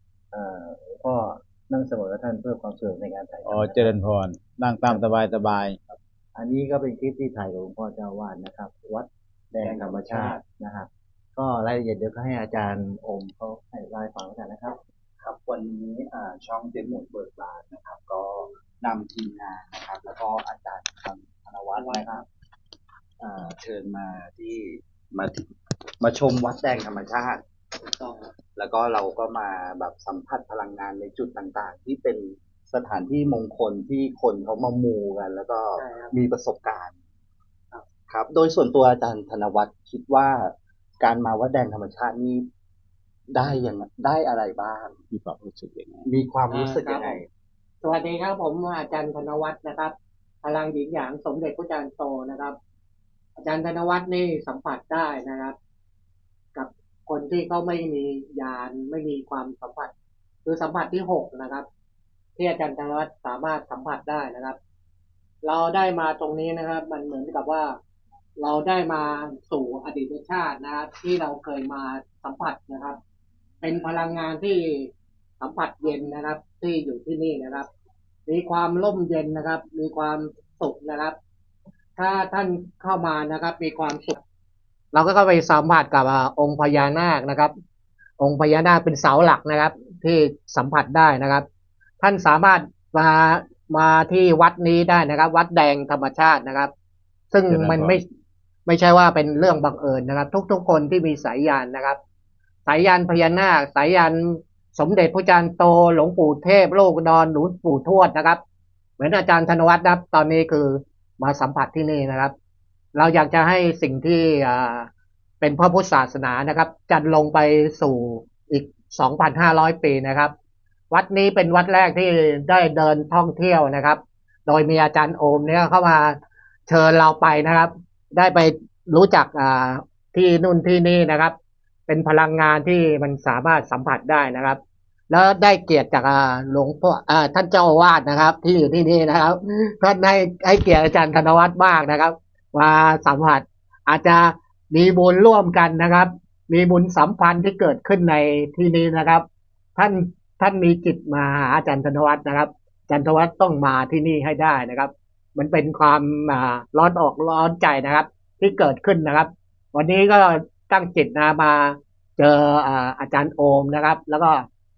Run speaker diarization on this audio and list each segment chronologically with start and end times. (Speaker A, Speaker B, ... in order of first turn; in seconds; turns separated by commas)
Speaker A: 0.3-3.9, Speaker B: 3.5-5.8, Speaker A: 5.9-14.8, Speaker C: 9.6-10.4, Speaker C: 15.2-22.3, Speaker D: 21.8-22.0, Speaker C: 23.2-25.5, Speaker C: 26.0-27.4, Speaker D: 28.0-28.3, Speaker C: 28.5-36.9, Speaker D: 35.8-36.1, Speaker C: 38.1-42.5, Speaker C: 43.3-45.0, Speaker B: 45.1-46.1, Speaker C: 46.1-47.3, Speaker D: 46.5-47.2, Speaker D: 47.8-52.6, Speaker D: 53.4-55.6, Speaker D: 56.5-59.9, Speaker D: 60.5-61.7, Speaker D: 62.4-64.6, Speaker D: 65.4-67.8, Speaker D: 68.4-73.0, Speaker D: 73.6-77.7, Speaker D: 78.3-81.2, Speaker D: 82.0-84.2, Speaker D: 84.9-87.5, Speaker D: 88.2-91.5, Speaker D: 92.0-96.7, Speaker D: 97.3-98.0, Speaker B: 97.5-98.0, Speaker D: 98.7-102.0, Speaker D: 102.7-108.4, Speaker D: 109.0-112.3, Speaker D: 112.9-114.9, Speaker D: 115.4-120.3, Speaker D: 120.9-131.3, Speaker D: 131.9-149.2, Speaker D: 149.8-164.5